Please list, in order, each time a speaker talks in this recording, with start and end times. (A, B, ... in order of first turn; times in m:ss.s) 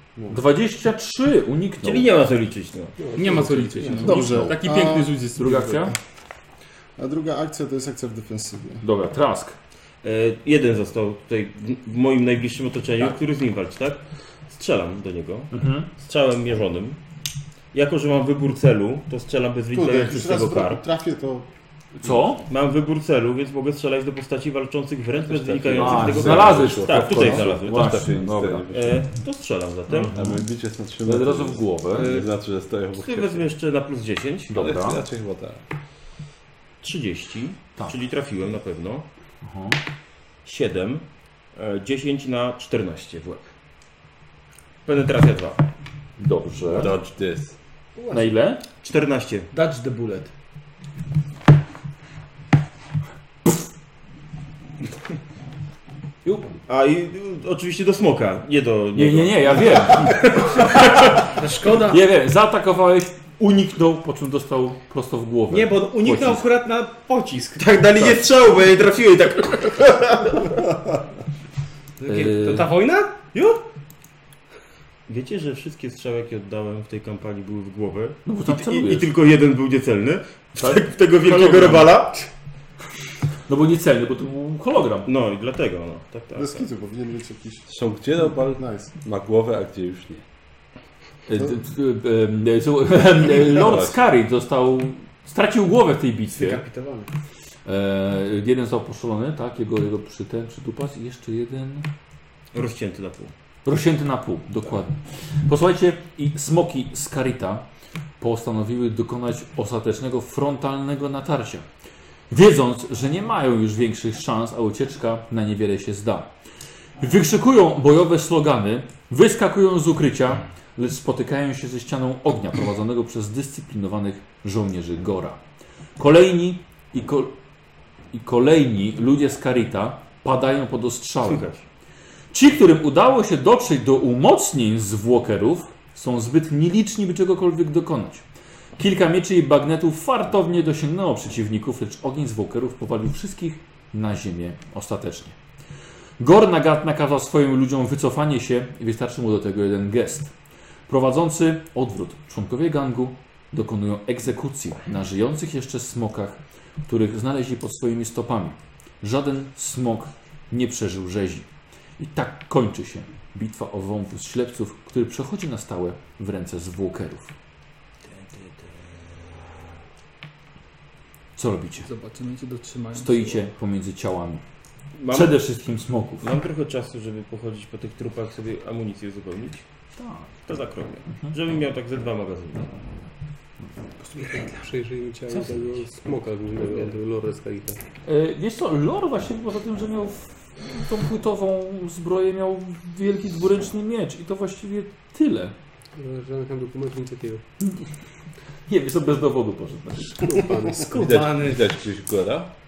0:00.3-0:02.1 A
0:01.8-0:03.0 B
0:03.0-0:04.1 C
0:03.2-0:05.9 D
0:03.9-0:05.2 E
0:04.2-0:04.5 A
0:05.4-0:05.9 A
0:07.0-0:08.8 E
0:08.8-0:09.6 A
0:10.0-0:17.0 B
0:15.5-0:15.9 A
0:17.7-0:20.8 B
0:19.7-0:21.5 E
0:22.0-0:22.5 A
0:22.5-0:27.9 B
0:25.2-0:29.0 F
0:25.7-0:28.6 A
0:28.7-0:30.2 B
0:29.9-0:30.5 A
0:30.1-0:33.5 F
0:31.0-0:32.2 A
0:31.9-0:32.3 B
0:32.9-0:34.6 B
0:34.5-0:35.0 A
0:34.5-0:35.6 F
0:36.8-0:39.1 B
0:39.4-0:39.8 A
0:40.4-0:43.4 B
0:44.8-0:45.6 B
0:46.2-0:47.0 A
0:46.6-0:47.5 F
0:48.0-0:48.4 G
0:48.1-0:48.6 A
0:48.8-0:49.5 B
0:49.5-0:50.3 G
0:56.7-1:00.3 B
0:58.9-1:06.5 A
1:01.3-1:02.0 G
1:05.5-1:07.7 G
1:07.6-1:10.3 B
1:12.0-1:13.2 G
1:12.1-1:12.7 A
1:13.3-1:13.6 B
1:15.1-1:22.2 B
1:18.2-1:19.1 A
1:20.6-1:22.0 A
1:23.5-1:25.1 A
1:25.0-1:26.7 B
1:26.4-1:27.7 E
1:27.7-1:30.2 F
1:28.3-1:28.9 E
1:31.3-1:36.6 A
1:33.4-1:34.0 F
1:36.3-1:37.1 G
1:37.6-1:41.9 A
1:42.5-1:43.3 B
1:43.6-1:47.7 A
1:48.2-1:51.6 A
1:52.3-1:56.3 A
1:57.0-2:05.4 A
2:06.0-2:07.3 A
2:08.1-2:11.5 A
2:11.2-2:11.6 B
2:12.3-2:18.2 A
2:18.8-2:25.4 A
2:26.2-2:30.3 A
2:30.9-2:41.5 A
2:42.0-2:47.3 A
2:48.1-2:49.1 B
2:51.4-2:51.9 A
2:51.8-2:53.4 D
2:52.9-2:54.4 A
2:55.0-2:55.4 B
2:55.1-2:56.3 A
2:56.2-2:59.6 B
3:00.0-3:00.4 A
3:00.4-3:02.9 B
3:01.1-3:01.4 A
3:04.2-3:07.8 C
3:08.0-3:15.6 A
3:16.0-3:17.4 C
3:18.7-3:20.5 A
3:20.2-3:20.9 C
3:20.8-3:21.6 G
3:20.9-3:22.5 F